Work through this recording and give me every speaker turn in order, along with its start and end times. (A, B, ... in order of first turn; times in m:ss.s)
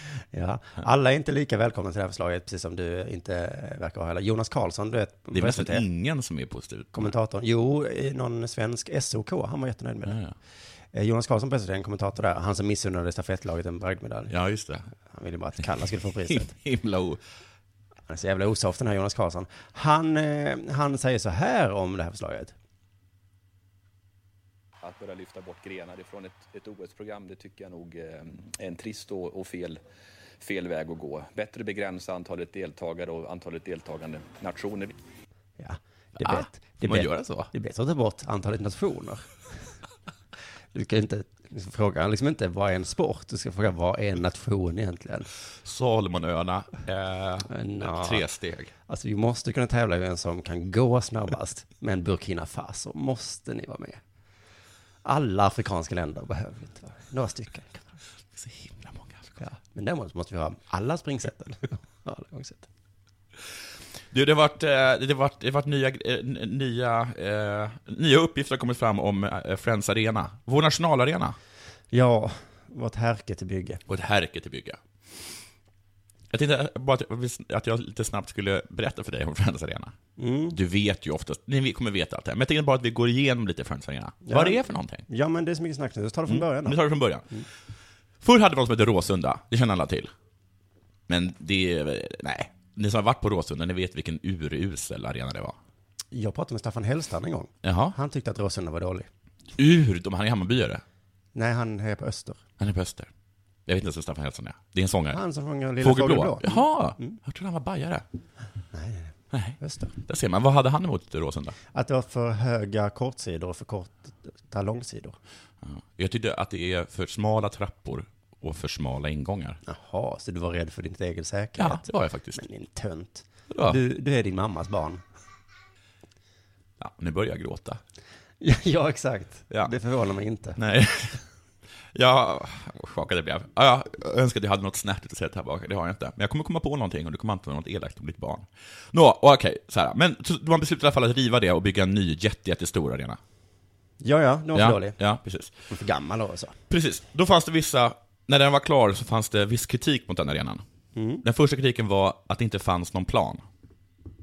0:00.3-0:05.8 A
0:05.3-0:07.1 B
0:06.9-0:10.2 A
0:10.1-0:10.3 B
0:10.9-0:14.3 A
0:14.3-0:14.9 B
0:15.1-0:16.5 A
0:16.3-0:17.2 B
0:18.1-0:22.5 A
0:24.8-0:29.8 C
0:30.4-0:34.9 C
0:35.6-0:39.3 A
0:36.2-0:37.5 B
0:40.7-0:45.3 A
0:45.6-0:48.7 B
0:47.5-0:48.2 A
0:48.9-0:54.0 A
0:55.0-0:57.9 A
0:58.3-0:59.3 B
0:59.4-1:02.7 A
1:04.1-1:11.4 B
1:11.9-1:13.8 A
1:13.9-1:15.3 B
1:16.3-1:19.9 B
1:20.2-1:20.6 A
1:20.5-1:25.0 B
1:24.2-1:26.8 A
1:26.3-1:27.2 B
1:28.2-1:30.1 B
1:31.1-1:35.6 B
1:36.1-1:39.1 A
1:37.6-1:38.0 B
1:39.6-1:40.8 B
1:41.3-1:42.4 A
1:42.6-1:43.1 B
1:43.6-1:45.2 B
1:45.1-1:47.2 A
1:45.8-1:48.0 B
1:48.7-1:49.9 A
1:49.3-1:51.6 B
1:51.7-1:55.2 A
1:55.6-1:59.6 B
1:59.6-2:01.8 A
2:01.6-2:02.4 B
2:02.3-2:05.0 A
2:03.5-2:03.8 B
2:06.8-2:07.8 B
2:08.4-2:10.6 A
2:10.6-2:11.2 B
2:11.9-2:23.2 B
2:24.0-2:25.0 A
2:24.5-2:25.6 B
2:25.7-2:26.6 A
2:26.7-2:30.6 B
2:30.9-2:31.2 A
2:31.2-2:33.4 B